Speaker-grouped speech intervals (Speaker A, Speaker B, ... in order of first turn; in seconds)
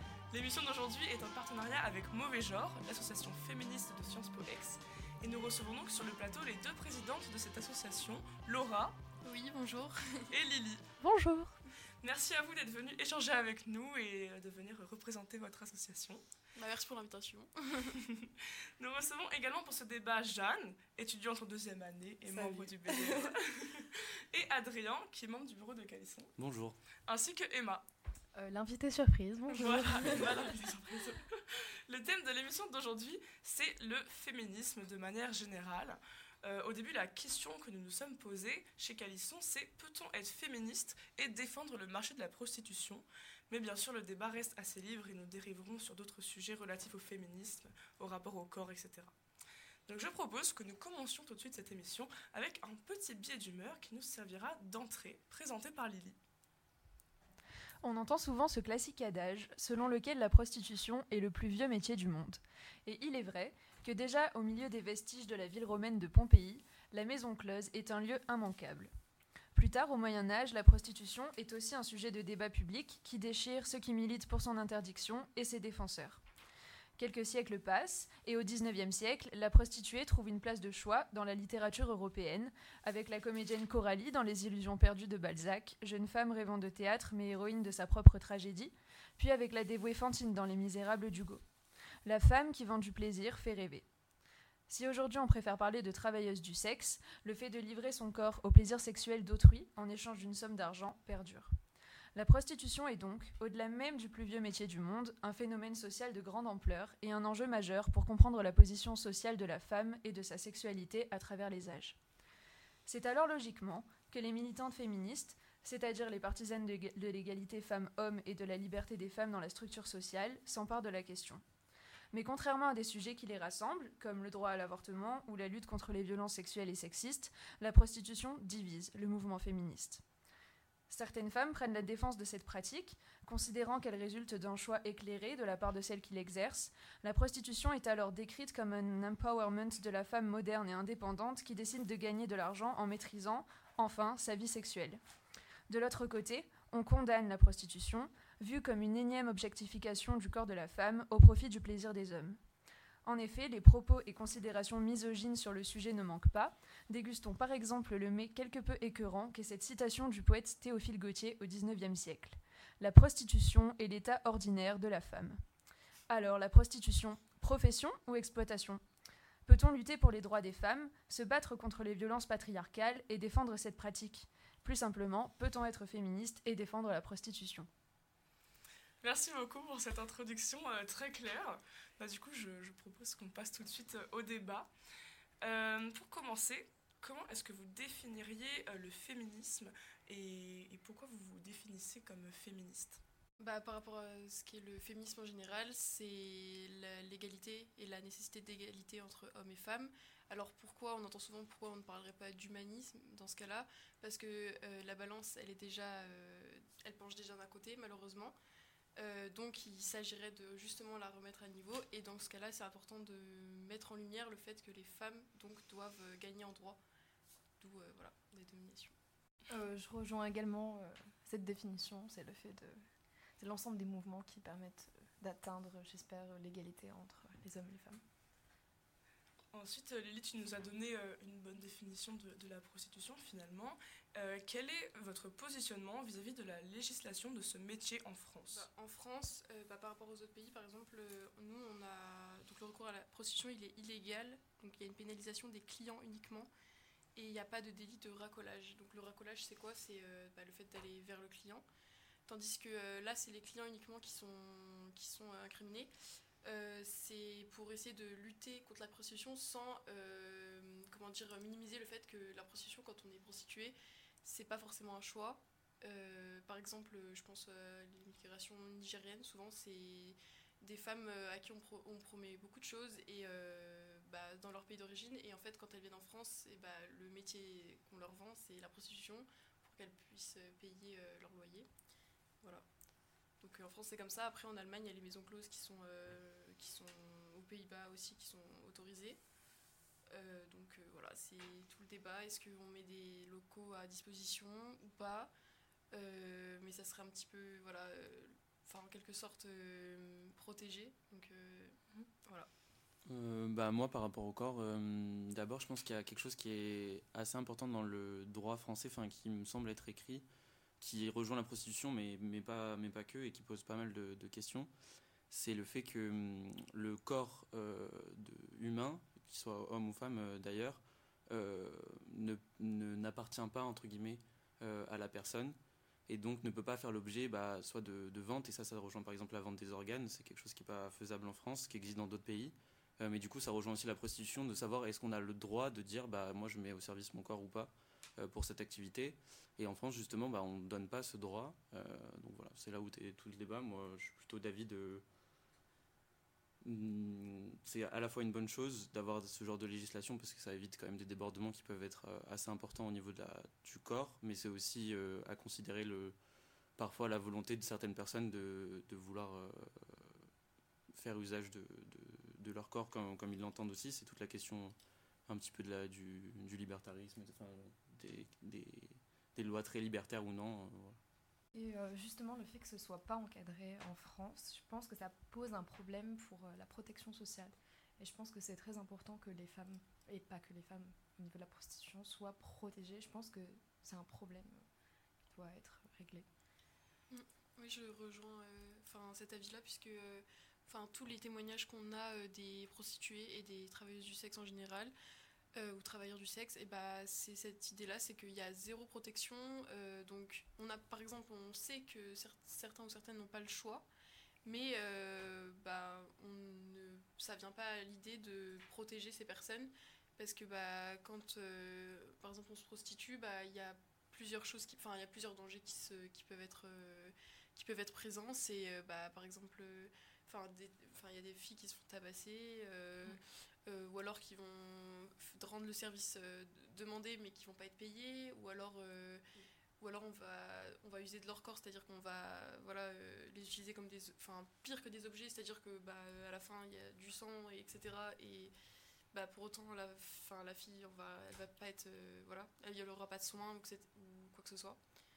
Speaker A: 0.3-9.0, 10.3-10.8, 12.0-16.2, 17.9-26.3, 27.1-27.8, 29.5-49.1, 49.9-56.2, 179.0-184.7, 185.4-193.0, 229.5-238.7
Speaker B: 9.2-10.3, 16.5-18.0, 193.4-208.3, 209.0-216.8, 217.6-218.9, 238.5-246.5, 247.2-251.6, 252.3-255.9, 256.4-281.7, 283.4-289.2, 290.1-295.3, 295.9-302.5, 387.1-394.9, 395.5-403.9, 404.4-438.5, 439.1-444.8
Speaker C: 11.0-11.6, 57.8-68.9, 69.5-76.2, 77.0-91.4, 92.0-93.8, 94.7-101.5, 102.1-112.0, 112.8-121.4, 122.1-130.0, 130.9-145.0, 145.7-152.4, 153.0-165.4, 166.1-168.8, 169.4-177.7
Speaker D: 22.2-23.3, 28.3-30.6, 219.5-222.9, 223.4-228.0, 371.5-384.6, 385.3-386.3
Speaker E: 26.4-26.8, 303.1-310.2, 310.8-314.7, 315.3-325.6, 326.1-345.0, 346.6-356.1, 356.8-360.1, 360.9-364.7, 365.3-371.0